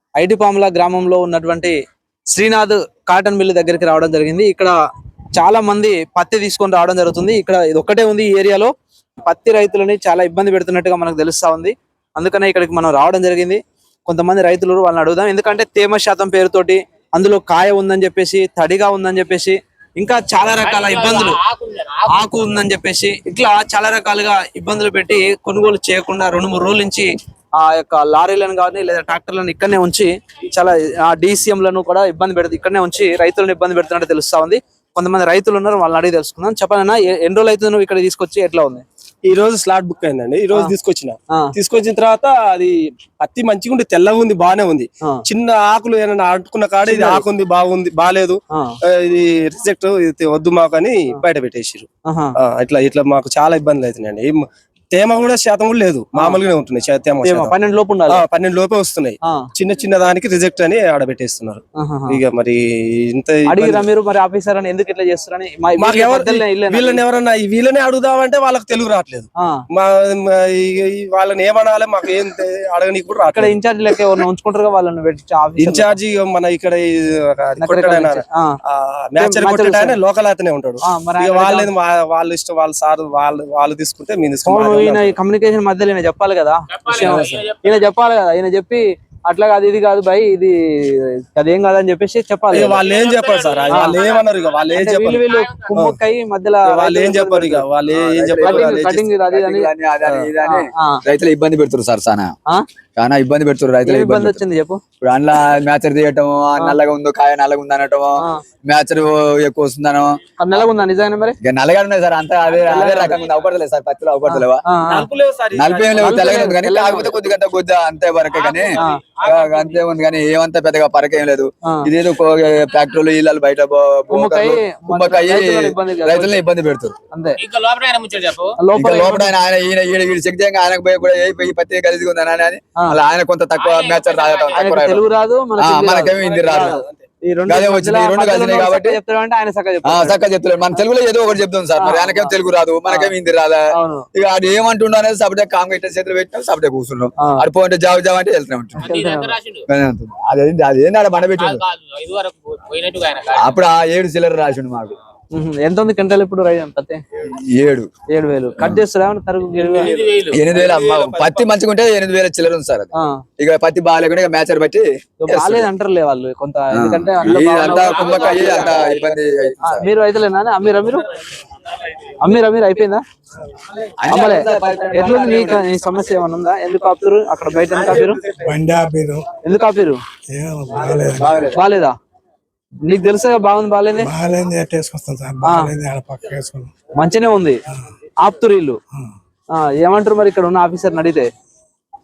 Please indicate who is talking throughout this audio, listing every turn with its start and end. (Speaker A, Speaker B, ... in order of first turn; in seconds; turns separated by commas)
Speaker A: 0.2-1.8, Speaker A: 2.3-4.8, Speaker A: 5.3-8.7, Speaker A: 9.2-21.4, Speaker B: 20.6-22.2, Speaker A: 22.1-38.9, Speaker C: 39.2-48.4, Speaker A: 46.9-47.2, Speaker C: 48.9-51.9, Speaker A: 52.0-52.3, Speaker C: 52.5-57.5, Speaker A: 57.2-58.2, Speaker C: 58.1-61.6, Speaker A: 61.8-62.2, Speaker C: 62.1-63.8, Speaker A: 63.5-67.0, Speaker C: 65.8-73.5, Speaker A: 73.3-75.9, Speaker C: 75.6-85.0, Speaker A: 77.6-78.5, Speaker A: 79.2-80.0, Speaker A: 80.8-81.7, Speaker A: 84.5-92.8, Speaker B: 86.7-87.9, Speaker C: 92.5-95.2, Speaker B: 92.7-95.7, Speaker A: 93.7-94.0, Speaker A: 94.7-97.7, Speaker C: 96.7-99.0, Speaker D: 97.9-102.3, Speaker A: 98.4-99.7, Speaker A: 100.4-101.0, Speaker D: 103.0-104.4, Speaker A: 103.8-104.8, Speaker D: 105.0-110.7, Speaker A: 110.4-111.4, Speaker D: 111.4-114.7, Speaker A: 112.7-113.2, Speaker A: 114.3-115.1, Speaker C: 114.9-115.9, Speaker D: 115.5-127.0, Speaker A: 116.0-117.1, Speaker B: 118.3-119.8, Speaker A: 124.1-126.4, Speaker A: 127.1-127.4, Speaker B: 127.4-128.5, Speaker A: 128.6-129.3, Speaker D: 128.7-135.1, Speaker B: 133.6-134.7, Speaker A: 134.5-140.2, Speaker D: 135.6-136.8, Speaker C: 136.2-137.1, Speaker D: 137.5-139.0, Speaker D: 139.8-143.6, Speaker A: 141.8-142.3, Speaker A: 142.9-143.1, Speaker A: 143.7-144.1, Speaker D: 144.1-148.8, Speaker A: 147.2-147.4, Speaker B: 148.8-149.7, Speaker A: 148.8-149.3, Speaker D: 149.7-151.6, Speaker B: 151.3-153.6, Speaker D: 153.4-154.9, Speaker A: 155.3-157.0, Speaker D: 157.2-157.9, Speaker A: 158.1-160.0, Speaker D: 158.6-158.8, Speaker B: 159.6-160.5, Speaker D: 160.3-165.7, Speaker C: 160.6-161.4, Speaker A: 162.9-163.2, Speaker A: 165.2-168.7, Speaker D: 166.7-169.9, Speaker B: 167.6-169.1, Speaker A: 169.7-171.1, Speaker A: 172.2-173.0, Speaker D: 174.0-175.7, Speaker A: 174.1-178.2, Speaker C: 177.8-178.3, Speaker E: 178.3-179.3, Speaker A: 179.4-180.0, Speaker E: 180.3-181.5, Speaker D: 181.1-181.6, Speaker A: 181.5-181.9, Speaker A: 182.8-184.1, Speaker E: 184.0-186.7, Speaker A: 185.4-185.7, Speaker A: 187.0-187.6, Speaker A: 188.2-188.8, Speaker A: 189.5-191.3